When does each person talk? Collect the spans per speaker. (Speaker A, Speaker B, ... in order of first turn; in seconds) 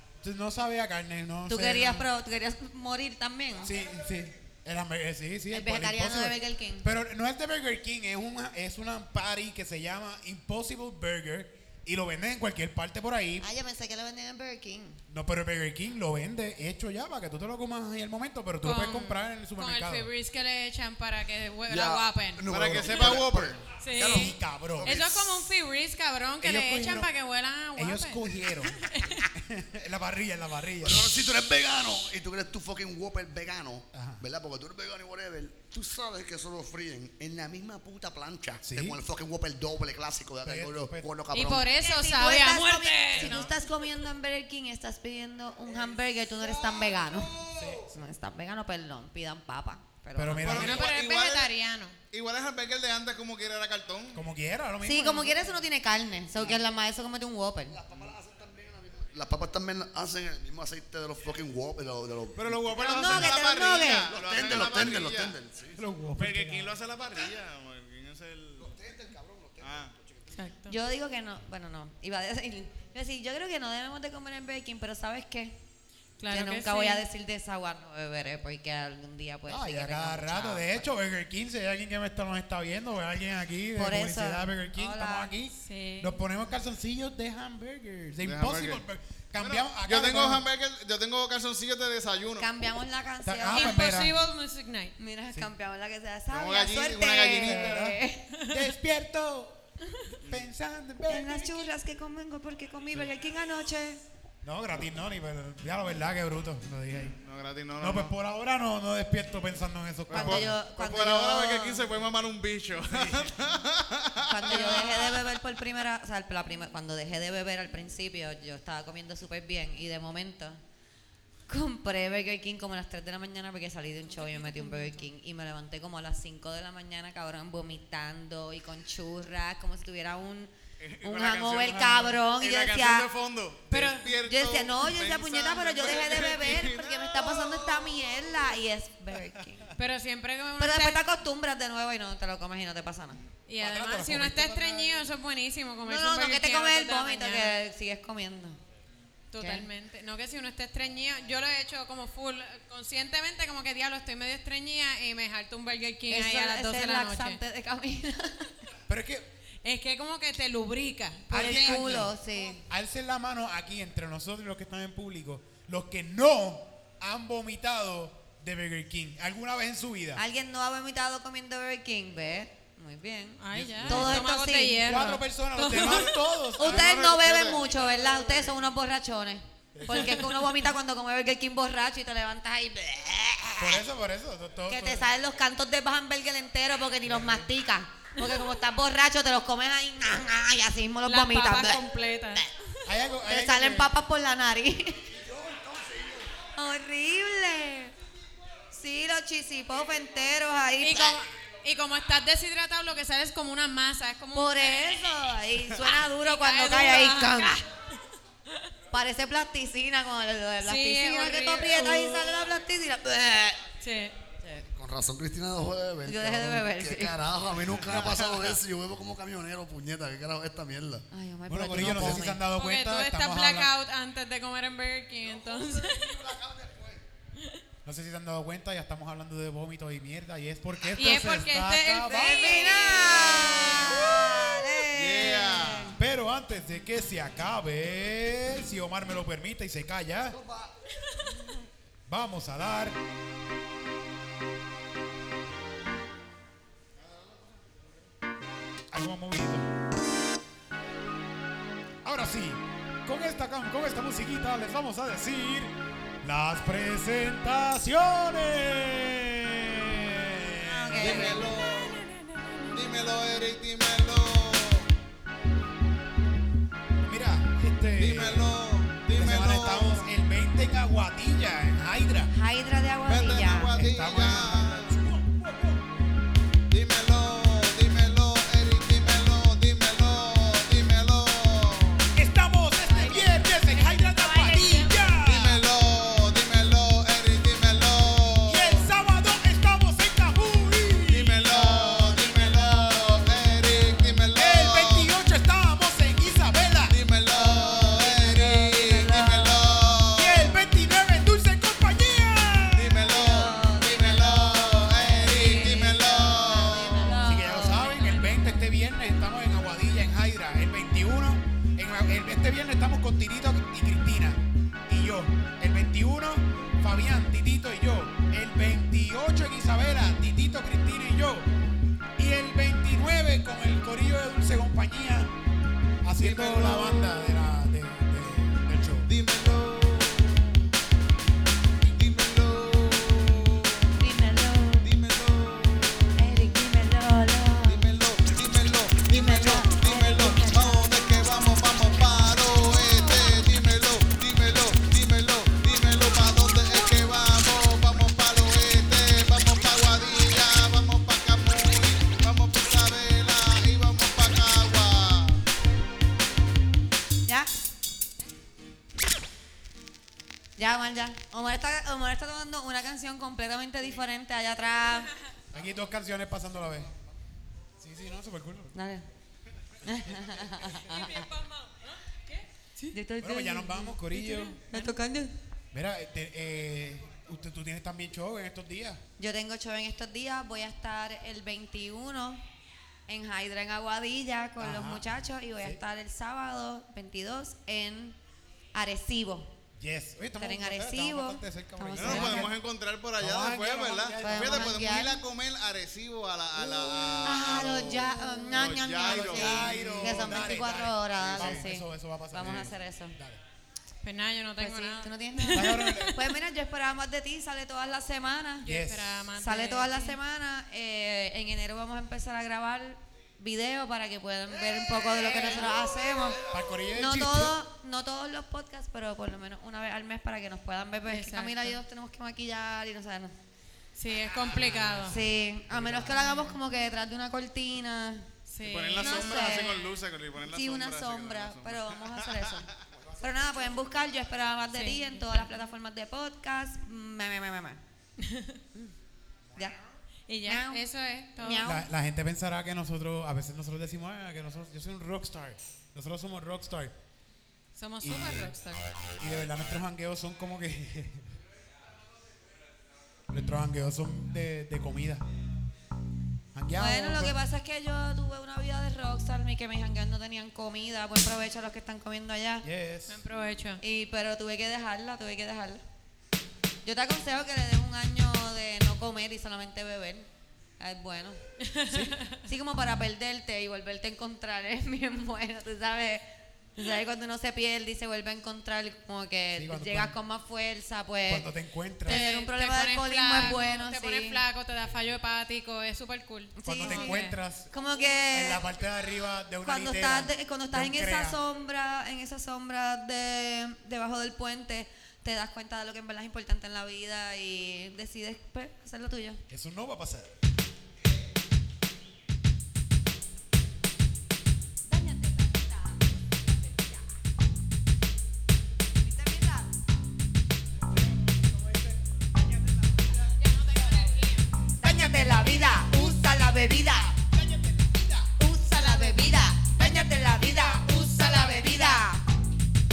Speaker A: 0.2-2.1, 3.6-13.5, 15.1-20.1, 24.0-25.1, 26.4-27.1, 27.8-31.1, 33.9-34.2, 38.6-39.0, 40.4-41.1, 43.1-43.5, 47.6-48.0, 50.1-50.9, 54.1-55.6, 62.4-63.4, 65.8-66.8, 79.5-90.5, 93.2-94.2, 97.4-99.6, 100.1-101.7, 104.4-107.2, 107.8-110.6, 112.8-113.4, 114.5-114.9, 143.6-145.1, 158.9-159.3, 161.3-170.2, 173.5-174.3, 174.8-176.9, 179.7-180.4, 183.6-185.1, 187.0-187.5, 192.9-193.9, 221.5-223.7, 227.8-232.6, 236.0-240.4, 242.1-243.0, 248.9-249.7, 252.0-261.5, 266.9-268.5, 269.1-272.3, 273.8-275.9, 282.1-285.6, 288.5-292.3, 294.3-297.0, 300.1-303.2, 307.2-321.5, 322.2-325.3, 326.0-329.6, 365.5-366.9, 367.8-368.8, 373.2-374.6, 375.7-379.0, 384.6-385.1, 389.8-392.6, 393.2-394.9, 399.0-403.4, 405.5-406.2, 408.6-409.2, 416.4-417.5, 424.3-426.5, 441.6-446.9, 448.0-448.5, 449.2-451.3, 453.3-455.2, 456.5-457.4, 462.6-463.2, 471.9-472.2, 479.6-480.2, 481.3-482.2, 486.6-487.7, 488.3-491.4, 499.5-500.3, 510.9-513.4, 514.8-518.3, 519.8-522.1
Speaker B: 1.5-3.8, 5.5-6.9, 13.4-15.0, 41.8-47.3, 47.9-50.8, 54.8-57.8, 62.8-64.2, 70.7-75.6, 76.3-80.9, 83.8-85.3, 92.4-93.8, 95.0-98.3, 101.1-104.0, 110.1-111.9, 114.2-120.6, 121.5-133.1, 134.2-139.7, 140.6-143.2, 145.8-148.6, 149.4-149.7, 156.1-158.6, 161.3-162.7, 170.2-175.1, 176.6-183.8, 184.7-192.4, 193.3-195.1, 196.6-197.9, 198.7-201.2, 204.3-207.7, 208.9-213.6, 216.1-217.2, 221.1-222.4, 232.1-236.0, 260.6-261.5, 272.3-273.8, 282.9-283.3, 297.3-299.7, 303.1-308.6, 334.0-334.9, 336.1-337.9, 339.1-341.1, 360.6-365.1, 368.7-369.1, 369.8-371.3, 372.9-375.3, 379.2-382.4, 383.1-388.2, 388.7-389.5, 390.4-392.5, 394.2-395.2, 397.2-403.2, 404.6-408.7, 409.4-416.4, 416.9-423.3, 425.1-428.3, 429.0-429.9, 430.5-432.7, 433.2-437.8, 440.4-440.8, 441.4-441.9, 456.7-462.7, 463.8-465.8, 466.8-470.3, 470.8-471.4, 472.4-481.5, 482.1-484.4, 486.6-488.6, 489.6-499.4, 504.9-507.1, 508.9-509.7, 514.8-517.2, 518.4-522.2
Speaker C: 18.6-23.1, 23.8-29.3, 41.3-43.5, 50.5-52.0, 70.3-70.8, 76.2-77.1, 85.6-86.2, 93.5-95.0, 98.3-98.7, 124.1-125.1, 133.7-134.1, 139.8-141.0, 143.5-147.6, 149.3-157.4, 159.6-161.6, 173.4-176.2, 179.9-180.2, 191.1-192.5, 200.8-205.1, 205.8-207.6, 210.6-212.3, 213.8-214.2, 222.5-226.2, 227.4-227.6, 230.9-234.4, 282.9-285.0, 370.6-372.9, 404.0-406.3, 408.6-410.2, 421.1-421.8, 423.9-425.2, 428.5-429.7, 434.7-435.5, 438.2-438.6, 440.3-441.7, 447.8-448.9, 463.1-463.8, 471.6-472.4, 482.1-487.4, 513.4-514.5
Speaker D: 21.7-25.3, 30.8-41.7, 46.4-47.8, 57.7-62.8, 64.0-65.8, 68.6-70.5, 195.1-196.3, 214.7-221.1, 221.8-222.3, 225.2-227.0, 240.3-240.7
Speaker E: 22.5-23.6, 50.4-51.5, 52.1-54.2, 62.7-65.4, 66.2-68.8, 69.6-69.9, 88.2-88.8, 89.4-92.5, 96.3-97.9, 107.1-108.1, 110.1-115.4, 130.8-138.2, 176.6-178.3, 234.9-236.0, 261.0-262.1, 262.7-264.9, 268.0-270.1, 273.1-275.0, 276.7-282.1, 285.2-288.9, 291.1-295.1, 296.9-300.5, 302.7-307.2, 326.2-327.2, 329.1-330.7, 331.8-334.0, 334.8-336.3, 337.6-355.4, 392.0-400.6, 401.2-401.6, 428.6-432.7